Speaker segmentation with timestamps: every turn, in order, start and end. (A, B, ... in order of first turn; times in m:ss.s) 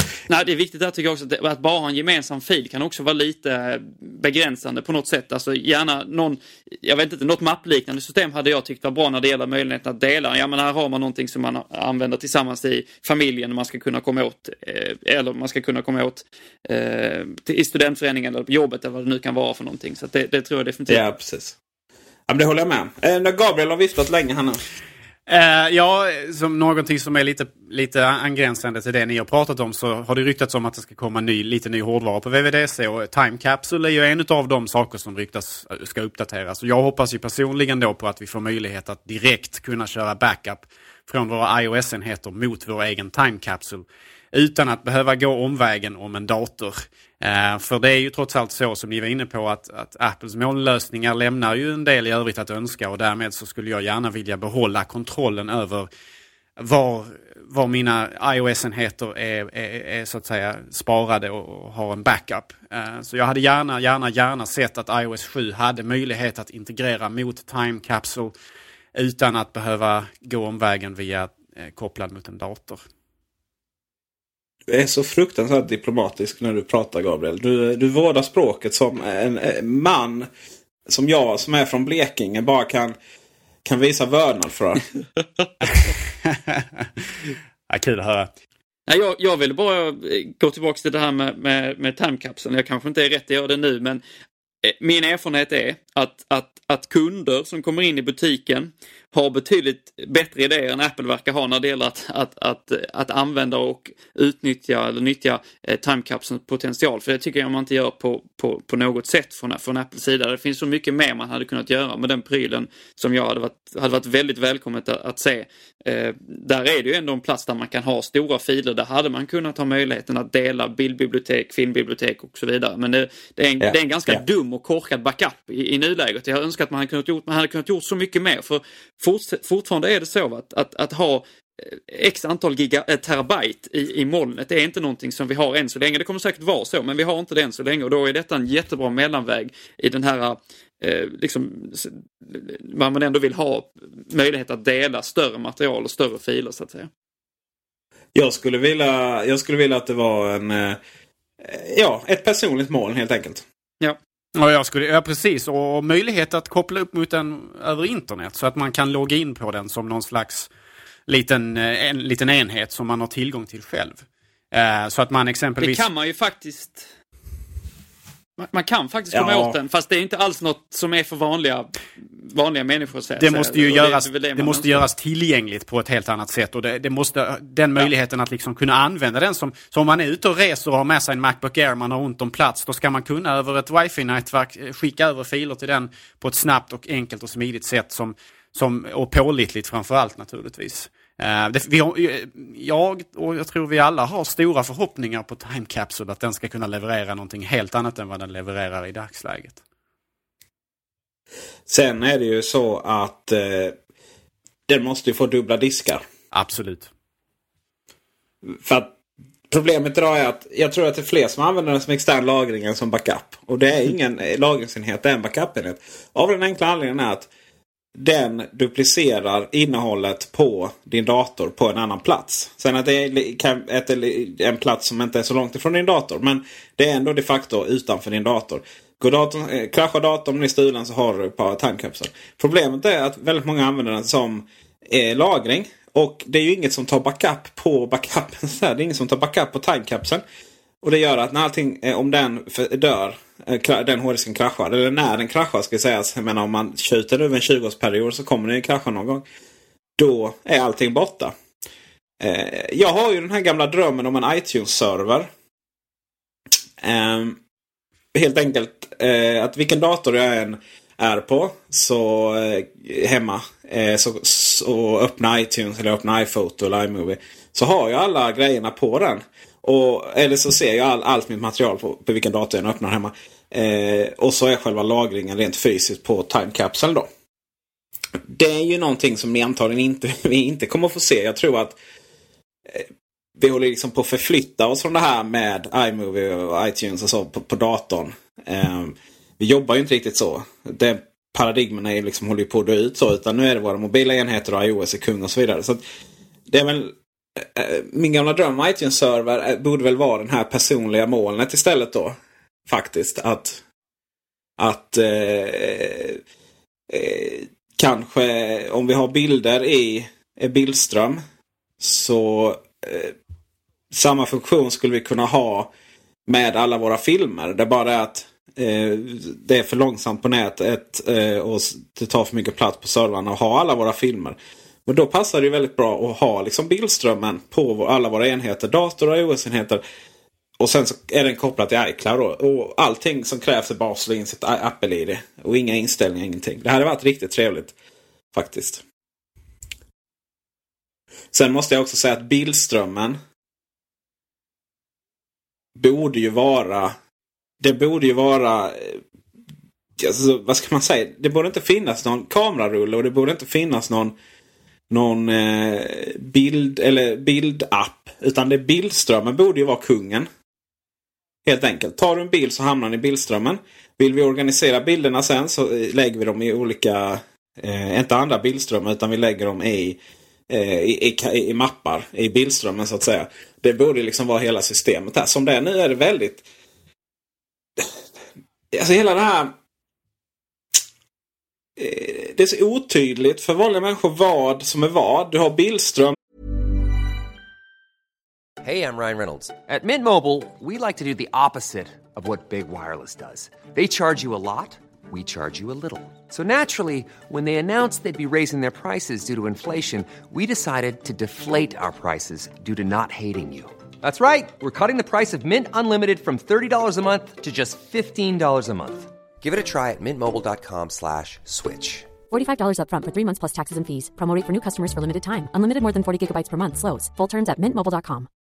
0:00.3-0:21.0 A
0:20.9-0:21.6 B
0:22.3-0:24.6 B
0:25.3-0:55.9 C
0:56.6-1:08.3 C
1:08.9-1:12.8 C
1:14.7-1:20.3 B
1:20.9-1:23.0 B
1:23.6-1:24.8 B
1:25.8-1:26.9 C
1:27.7-1:28.3 C
1:28.9-1:34.0 A
1:34.6-2:26.9 A
2:03.6-2:04.2 B
2:28.1-2:30.8 B
2:31.4-2:33.4 B
2:34.4-2:40.5 C
2:41.1-2:45.8 C
2:45.6-2:46.9 A
2:48.4-2:54.8 A
2:49.1-2:49.6 B
2:53.2-3:19.6 C
3:21.7-3:23.7 B
3:24.7-3:26.0 B
3:26.3-3:26.9 C
3:28.5-3:28.9 B
3:29.5-3:37.3 B
3:37.9-4:00.2 B
4:00.8-4:09.2 B
4:10.0-4:11.3 B
4:12.2-4:15.3 B
4:16.8-4:17.4 B
4:18.1-4:37.1 B
4:38.3-4:41.8 B
4:42.7-4:55.8 B
4:56.5-5:03.6 B
5:04.6-5:06.2 B
5:06.9-5:11.2 B
5:11.8-5:13.1 B
5:13.9-5:15.7 B
5:16.3-5:29.8 B
5:30.6-5:37.7 B
5:38.3-5:38.8 B
5:41.3-5:43.2 B
5:45.8-5:46.9 B
5:47.6-5:49.0 B
5:50.0-5:54.1 B
5:54.9-6:00.3 B
6:01.4-6:16.4 B
6:18.7-6:19.5 B
6:21.8-6:26.2 B
6:28.6-6:52.1 D
6:52.3-6:58.3 E